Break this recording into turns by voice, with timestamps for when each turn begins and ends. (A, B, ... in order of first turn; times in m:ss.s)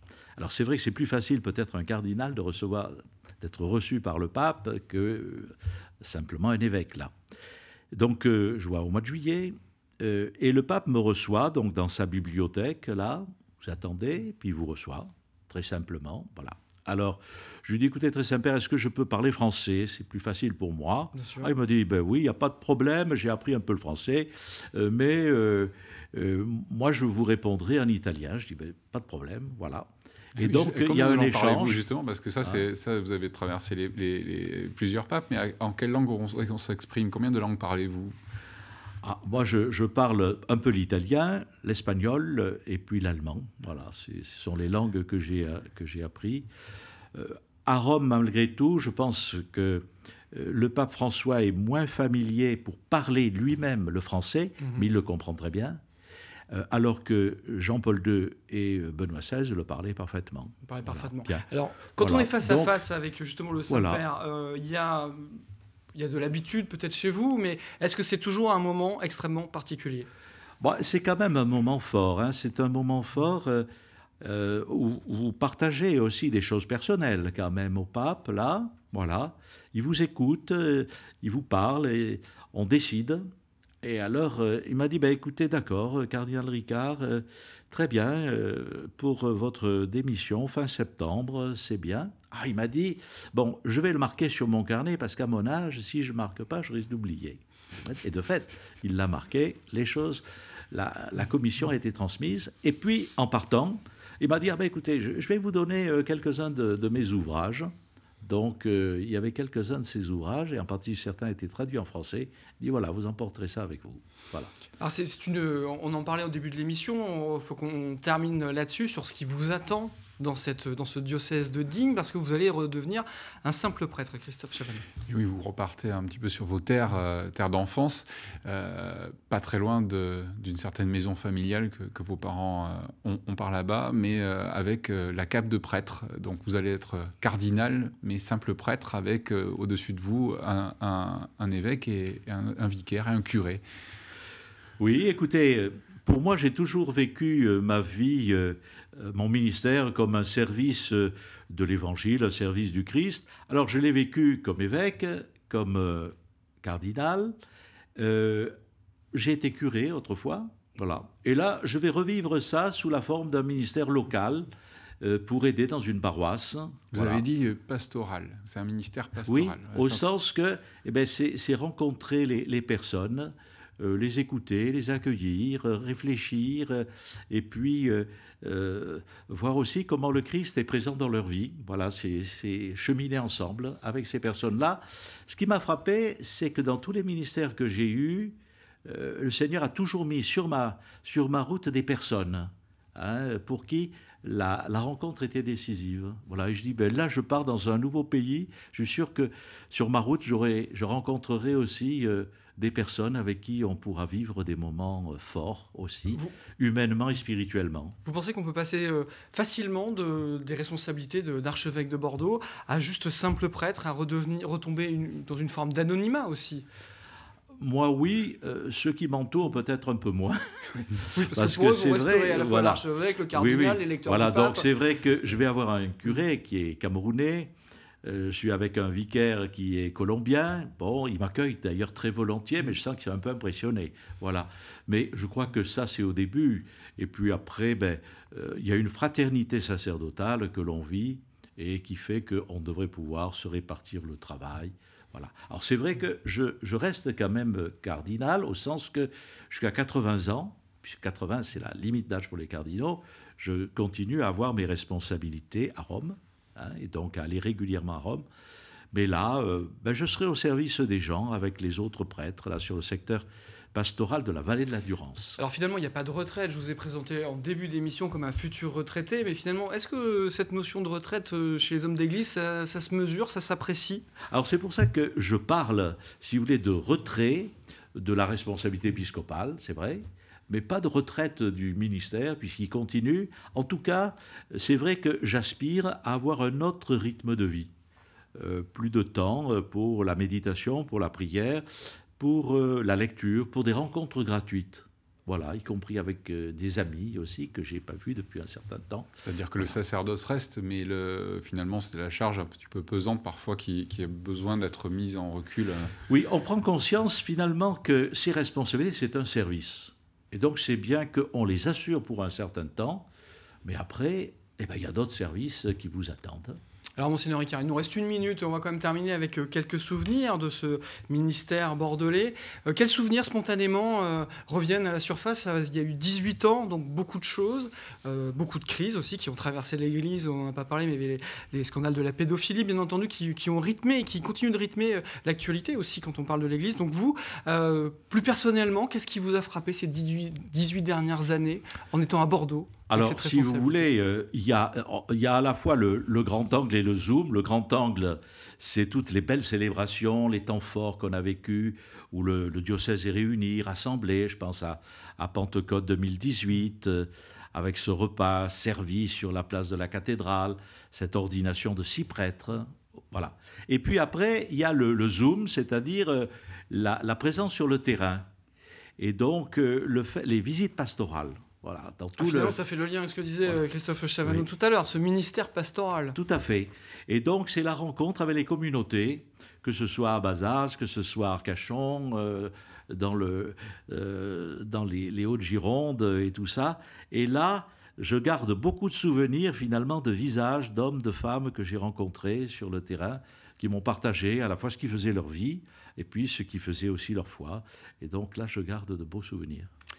0:00.4-0:07.1 A
0:07.9-0:31.8 A
0:21.1-0:21.5 B
0:30.4-0:38.2 C
0:39.0-0:46.5 A
0:47.1-0:55.8 A
0:54.6-0:54.8 B
0:56.5-1:01.4 A
1:00.6-1:05.4 B
1:02.0-1:02.8 A
1:03.7-1:04.0 A
1:05.9-1:10.1 B
1:10.6-1:13.7 A
1:14.2-1:23.3 A
1:23.8-1:54.5 A
1:54.8-2:04.9 B
2:05.1-2:23.6 C
2:24.8-2:37.3 A
2:38.0-2:38.5 A
2:39.1-2:44.5 A
2:45.0-2:47.2 A
2:46.9-2:50.0 C
2:49.2-3:28.0 A
3:28.0-3:36.6 B
3:37.6-3:47.5 A
3:41.0-3:44.7 B
3:48.0-4:18.2 A
4:18.9-4:25.4 A
4:25.4-4:34.0 B
4:34.3-4:47.7 A
4:48.4-4:59.7 A
4:59.2-5:05.9 C
5:06.1-5:13.1 A
5:13.6-5:16.6 A
5:17.0-5:43.9 B
5:42.9-6:08.3 A
6:09.0-6:12.6 A
6:12.2-6:16.2 B
6:16.1-6:39.7 A